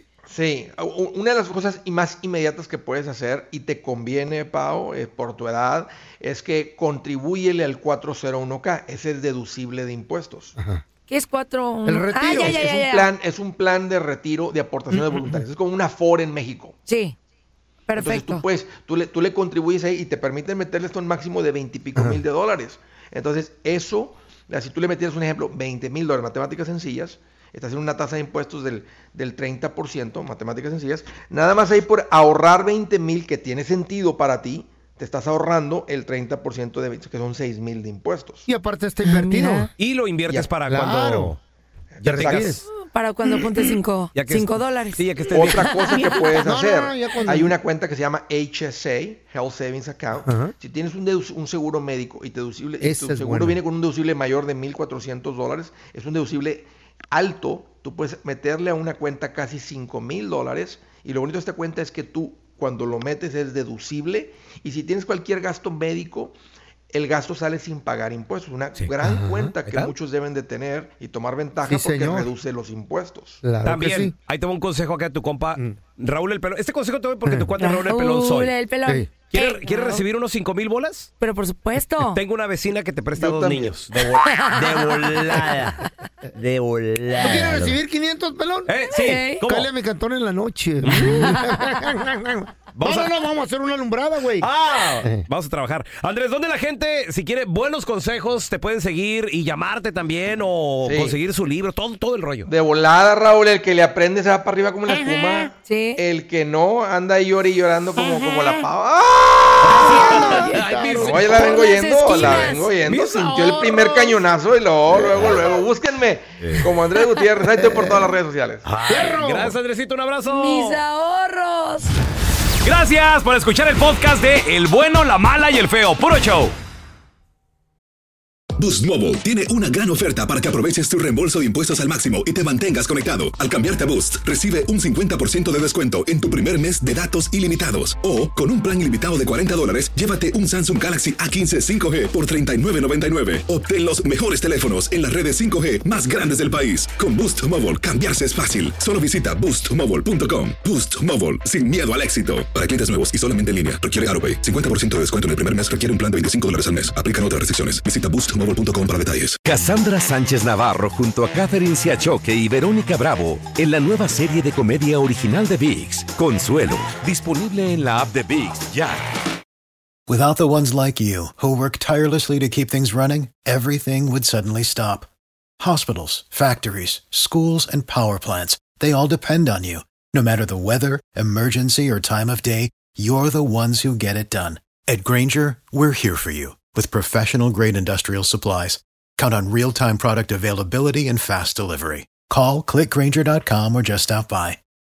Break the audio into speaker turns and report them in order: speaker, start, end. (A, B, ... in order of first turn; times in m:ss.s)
0:00.3-0:10.5 A
0:10.6-0:10.8 B
0:11.1-0:13.1 C
0:11.8-0:12.6 B
0:12.3-0:16.8 A
0:14.9-0:15.4 B
0:16.9-0:17.2 C
0:17.9-0:18.4 C
0:18.0-0:38.4 A
0:22.0-0:22.2 B
0:38.5-0:39.7 B
0:39.0-0:39.7 C
0:39.8-0:41.4 D
0:40.7-0:41.4 B
0:42.0-0:42.6 A
0:42.0-0:42.6 D
0:42.2-0:42.6 B
0:42.7-0:46.1 C
0:44.1-0:46.2 D
0:45.3-1:06.4 A
0:46.4-0:47.5 B
0:50.2-0:50.5 B
0:52.8-0:53.6 B
1:06.9-1:13.4 A
1:09.0-1:09.5 B
1:09.6-1:09.9 D
1:11.6-1:12.3 B
1:13.4-1:14.1 B
1:13.6-1:18.5 D
1:17.2-1:17.5 B
1:17.6-1:20.0 C
1:19.3-1:21.1 D
1:21.2-1:22.2 C
1:22.1-1:25.8 D
1:23.2-1:23.8 A
1:24.1-1:25.4 C
1:26.4-1:27.8 D
1:27.2-1:28.7 B
1:28.7-1:29.7 D
1:28.9-1:29.4 C
1:29.4-1:34.5 B
1:30.8-1:31.4 D
1:31.0-1:31.3 C
1:32.8-1:33.1 D
1:34.4-1:42.5 D
1:40.8-1:41.2 A
1:42.4-1:50.0 A
1:45.6-1:46.0 C
1:49.6-1:51.5 D
1:49.7-1:52.7 C
1:49.7-1:51.6 B
1:50.9-1:58.7 A
1:52.2-1:53.8 D
1:53.2-1:54.2 B
1:54.9-1:55.6 B
1:57.5-1:58.2 B
1:58.6-2:00.8 D
1:58.9-1:59.6 B
2:00.2-2:01.9 C
2:02.6-2:06.5 D
2:08.6-2:39.4 E
2:39.4-2:49.1 F
2:50.1-3:14.6 G